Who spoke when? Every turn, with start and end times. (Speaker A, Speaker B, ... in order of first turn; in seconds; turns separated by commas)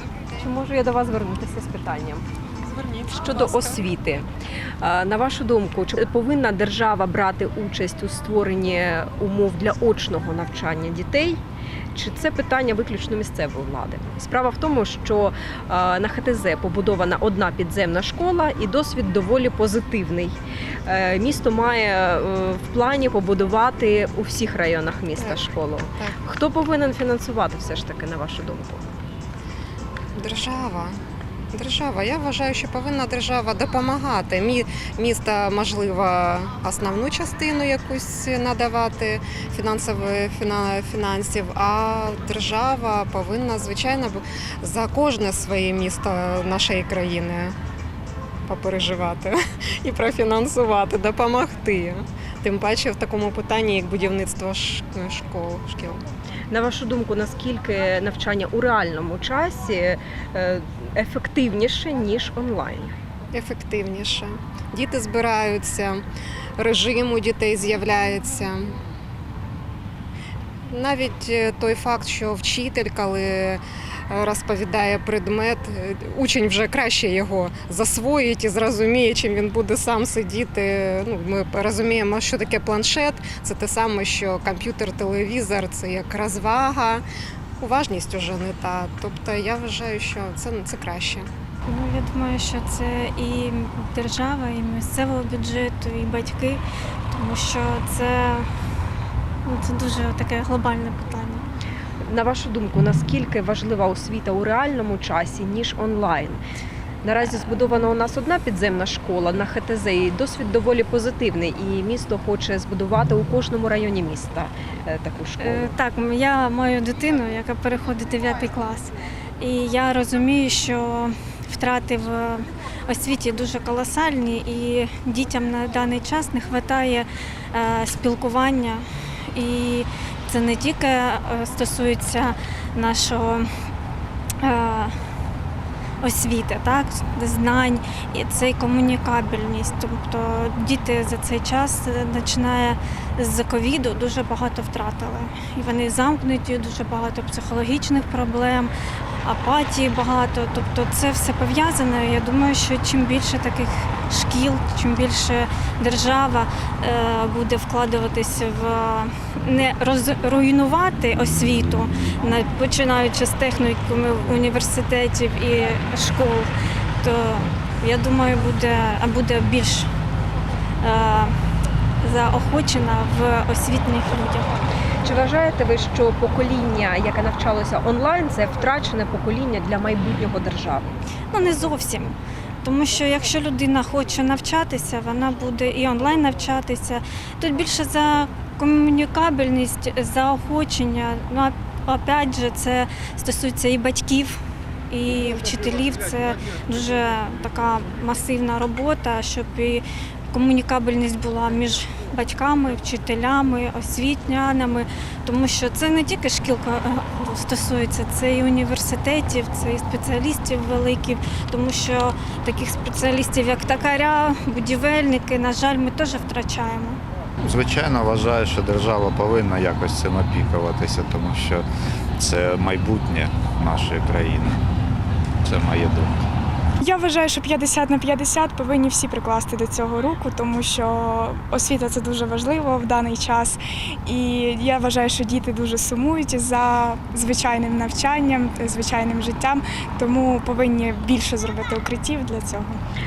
Speaker A: 0.4-2.3, Speaker B: 2.6-3.8, Speaker A: 3.1-4.3, Speaker A: 4.8-11.4, Speaker A: 11.9-20.3, Speaker A: 20.9-28.9, Speaker B: 30.2-31.0, Speaker B: 31.5-47.5, Speaker B: 48.5-56.0, Speaker A: 56.5-62.9, Speaker B: 63.3-66.0, Speaker B: 66.6-68.8, Speaker B: 70.7-87.0, Speaker B: 87.6-91.3, Speaker C: 91.7-98.5, Speaker C: 99.4-101.5, Speaker A: 102.0-106.4, Speaker A: 107.0-115.7, Speaker C: 115.4-133.5, Speaker C: 134.4-134.9, Speaker C: 136.0-148.7, Speaker C: 149.2-166.5, Speaker C: 167.0-169.9, Speaker C: 170.8-171.3, Speaker C: 172.0-174.5, Speaker A: 175.0-180.9, Speaker C: 181.3-194.4, Speaker C: 194.9-217.0, Speaker D: 217.4-221.6, Speaker D: 222.2-224.6, Speaker D: 225.4-226.2, Speaker E: 226.8-242.8